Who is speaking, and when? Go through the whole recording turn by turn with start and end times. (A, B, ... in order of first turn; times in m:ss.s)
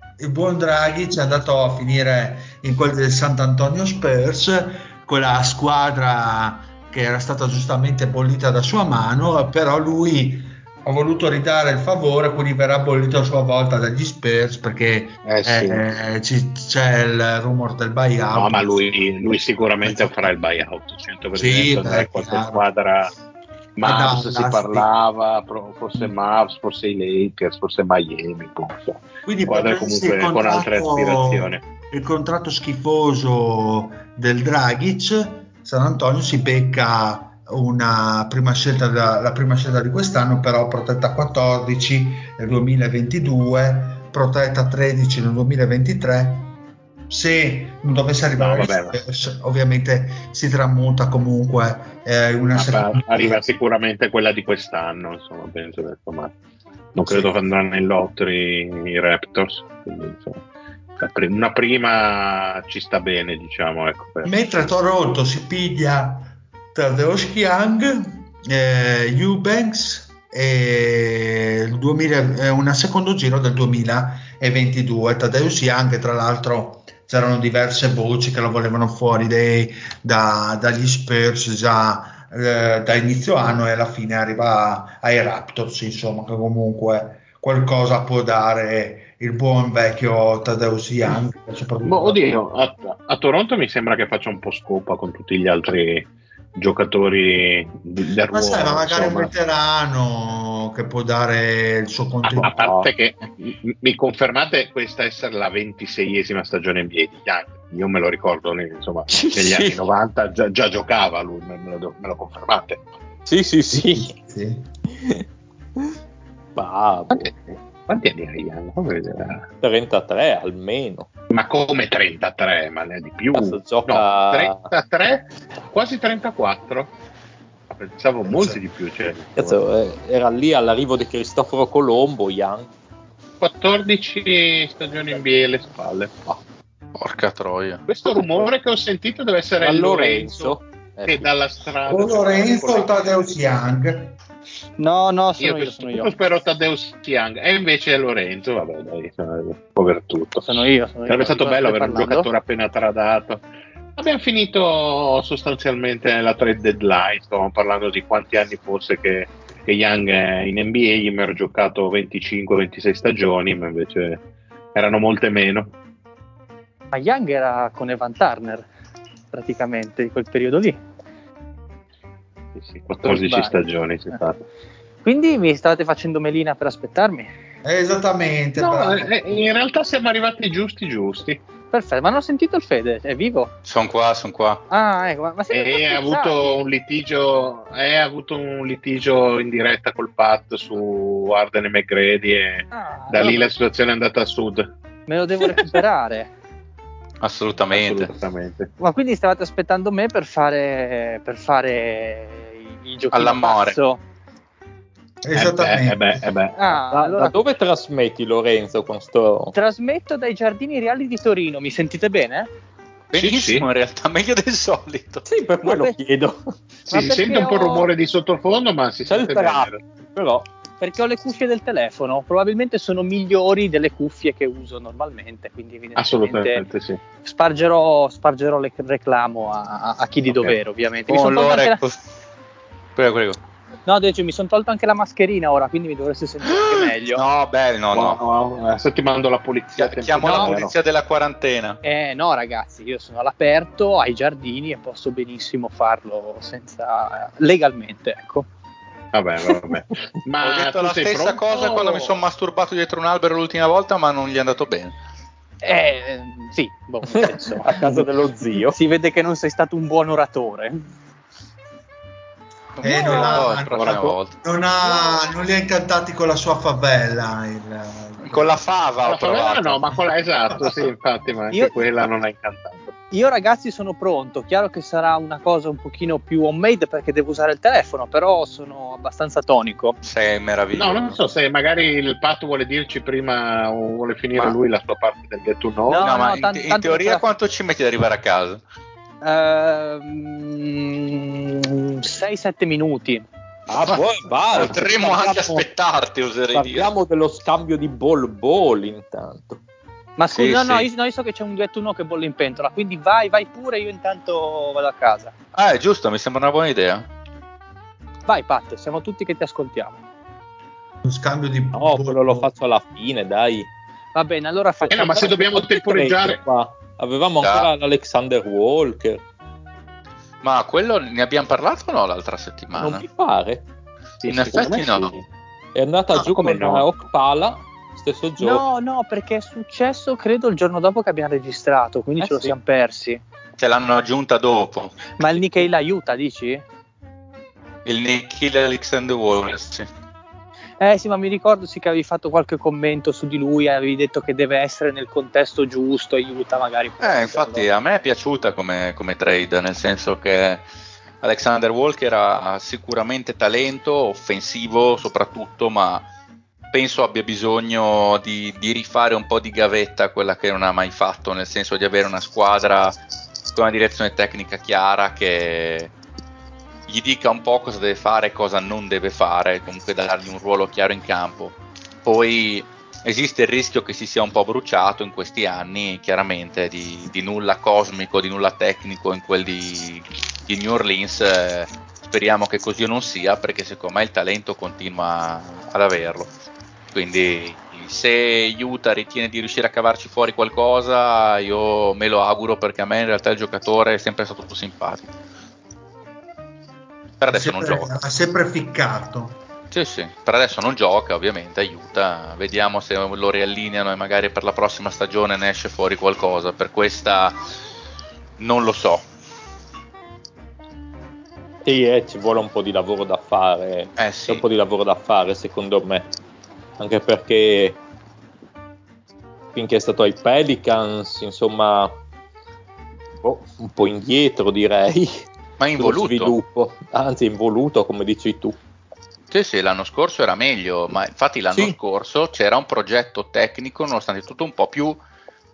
0:00.2-0:18.7 A
0:15.2-0:15.8 B
0:18.3-0:23.1 B
0:19.8-0:20.1 A
0:21.4-0:22.6 A
0:23.8-0:31.6 B
0:23.8-0:24.9 A
0:29.2-0:46.6 A
0:47.1-0:53.4 A
0:48.4-0:49.0 B
0:52.5-0:56.3 B
0:56.9-1:00.4 B
0:57.0-0:57.3 A
1:01.0-1:04.3 B
1:04.2-1:32.2 A
1:31.8-1:39.3 B
1:38.3-1:42.9 A
1:42.2-1:52.8 B
1:49.1-1:49.8 C
1:53.2-1:54.1 C
1:53.7-1:54.6 A
1:55.0-1:55.2 C
1:56.6-1:57.3 C
1:57.1-1:59.5 B
1:59.6-2:01.1 C
2:01.3-2:06.9 B
2:03.3-2:04.7 C
2:07.7-2:09.6 B
2:09.4-2:12.7 C
2:13.4-2:16.3 B
2:16.9-2:17.8 D
2:17.9-2:23.0 B
2:19.6-2:21.3 C
2:21.8-2:24.2 A
2:24.8-2:26.1 E
2:25.4-2:33.4 B
2:30.4-2:32.3 E
2:34.0-2:44.2 B
2:44.7-2:45.7 B
2:46.9-2:48.6 E
2:49.3-2:50.8 E
2:52.6-2:54.4 B
2:53.0-2:53.6 E
2:55.0-2:57.3 E
2:57.6-2:59.2 A
2:58.6-3:01.4 B
3:01.7-3:03.5 E
3:03.6-3:04.6 D
3:04.7-3:06.5 E
3:05.5-3:14.7 B
3:12.7-3:13.4 E
3:15.1-3:16.3 E
3:17.2-3:18.1 D
3:17.7-3:18.7 B
3:18.8-3:24.0 E
3:23.1-3:23.8 D
3:25.2-3:26.0 A
3:25.3-3:26.6 B
3:26.6-3:27.4 E
3:26.7-3:29.5 C
3:29.5-3:32.5 E
3:33.1-3:35.2 D
3:33.2-3:33.7 B
3:35.2-3:36.4 C
3:35.6-3:35.9 E
3:36.9-3:39.8 B
3:36.9-3:37.9 E
3:39.1-3:40.4 C
3:40.8-3:46.6 E
3:46.0-3:47.0 B
3:47.2-3:51.8 E
3:51.1-3:52.0 D
3:53.0-3:53.4 D
3:53.8-3:57.2 E
3:56.5-3:58.2 D
3:57.9-4:00.7 B
3:59.8-4:01.8 D
4:00.2-4:00.6 E
4:01.8-4:08.5 E
4:09.1-4:12.1 B
4:10.4-4:14.9 D
4:15.6-4:18.0 E
4:17.1-4:18.8 C
4:18.6-4:20.9 E
4:22.8-4:24.3 D
4:22.8-4:28.6 A
4:23.2-4:24.2 B
4:28.2-4:29.8 D
4:29.0-4:32.9 B
4:33.1-4:40.0 E
4:40.0-4:41.2 D
4:40.7-4:46.0 B
4:45.9-4:47.3 E
4:46.0-4:48.6 D
4:49.2-4:53.3 E
4:53.7-4:55.6 C
4:53.8-4:56.9 D
4:54.8-4:55.3 E
4:56.5-4:59.6 C
5:00.2-5:05.3 E
5:00.3-5:00.8 D
5:05.5-5:07.0 D
5:08.3-5:10.0 E
5:11.0-5:12.5 A
5:11.7-5:13.7 C
5:14.1-5:15.6 E
5:14.9-5:16.4 B
5:15.5-5:19.2 C
5:17.4-5:17.7 D
5:20.4-5:23.0 D
5:22.8-5:23.6 C
5:24.2-5:25.2 B
5:24.3-5:25.1 D
5:25.7-5:28.6 C
5:26.1-5:26.9 B
5:28.4-5:33.2 E
5:32.2-5:32.5 C
5:33.6-5:35.4 D
5:35.2-5:36.6 E
5:37.8-5:39.9 D
5:40.8-5:47.7 E
5:47.0-5:50.6 D
5:51.2-5:56.0 D
5:56.7-6:03.0 D
6:03.5-6:05.9 D
6:06.9-6:26.3 D
6:26.9-6:35.1 D
6:37.2-6:37.9 D
6:37.3-6:39.4 A
6:39.7-6:47.4 D
6:48.4-6:49.0 D
6:51.6-6:56.1 C
6:54.0-6:54.4 D
6:56.8-6:57.8 C
6:59.5-7:01.9 C
7:03.2-7:08.6 C
7:05.6-7:06.3 D
7:09.3-7:15.0 D